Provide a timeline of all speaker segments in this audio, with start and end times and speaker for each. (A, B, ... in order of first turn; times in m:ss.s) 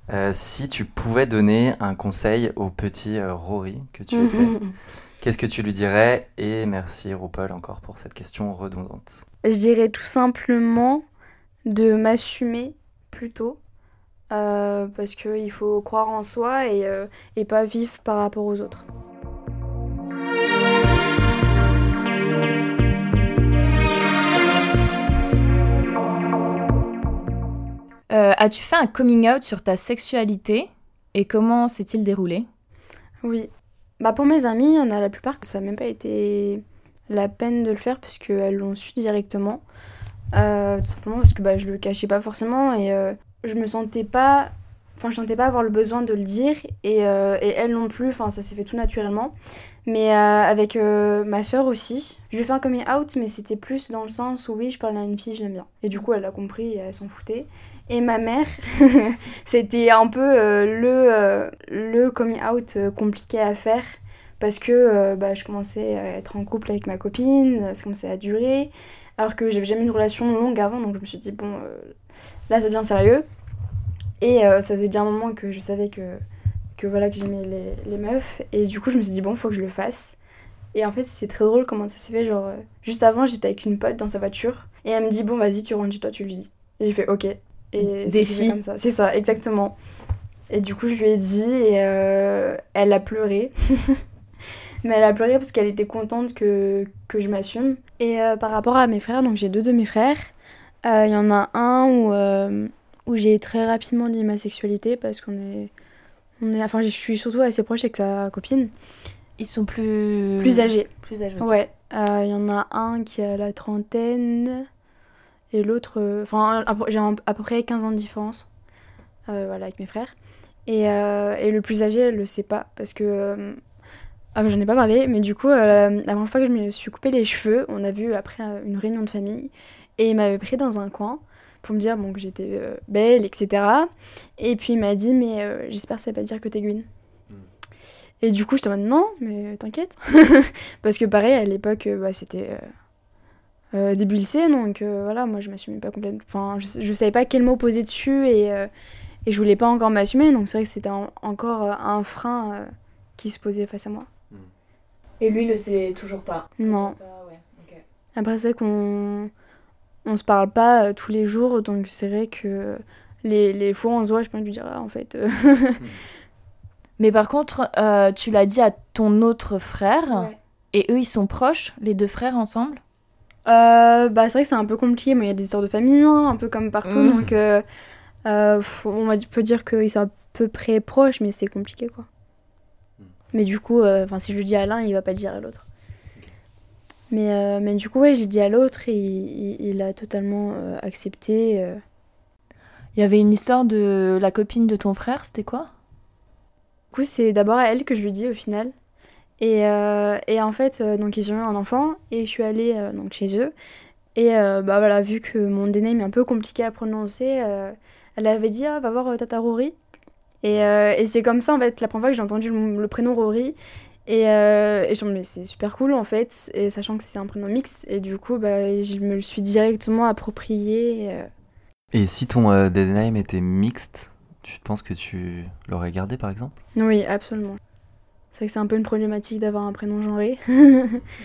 0:00.1-0:04.6 A
0:04.1-0:04.7 B
0:05.2-0:09.2 A
0:09.4-0:11.0 B
0:11.7-0:13.6 B
0:14.3-0:18.9 B
0:28.1-0:32.5 C
0:33.2-0:33.5 B
0:34.0-0:39.6 B
0:40.3-0:49.3 B
0:49.9-1:11.9 B
1:12.5-1:13.2 B
1:14.2-1:16.2 B
1:16.8-1:20.2 B
1:20.7-1:29.8 B
1:27.8-1:28.6 C
1:30.5-1:34.0 B
1:34.8-1:40.3 B
1:40.8-1:45.7 B
1:46.4-1:48.7 B
1:49.4-1:51.6 C
1:50.4-1:50.9 B
1:51.4-1:54.7 B
1:55.5-1:58.5 B
1:59.3-2:00.1 B
2:00.7-2:03.6 B
2:04.4-2:16.9 B
2:18.2-2:22.7 B
2:23.7-2:28.7 B
2:29.2-2:34.1 B
2:35.2-2:37.8 C
2:36.6-2:37.0 B
2:38.2-2:39.3 B
2:40.0-2:45.8 B
2:47.0-2:52.8 C
2:53.5-2:57.6 B
2:56.9-2:57.2 C
2:58.3-3:02.1 B
3:03.3-3:05.6 B
3:07.1-3:11.8 B
3:13.0-3:15.7 C
3:16.9-3:18.7 B
3:19.4-3:23.5 B
3:24.2-3:29.8 B
3:30.4-3:33.6 B
3:34.1-3:41.3 B
3:41.9-3:46.6 A
3:46.8-3:47.6 B
3:48.3-3:51.0 B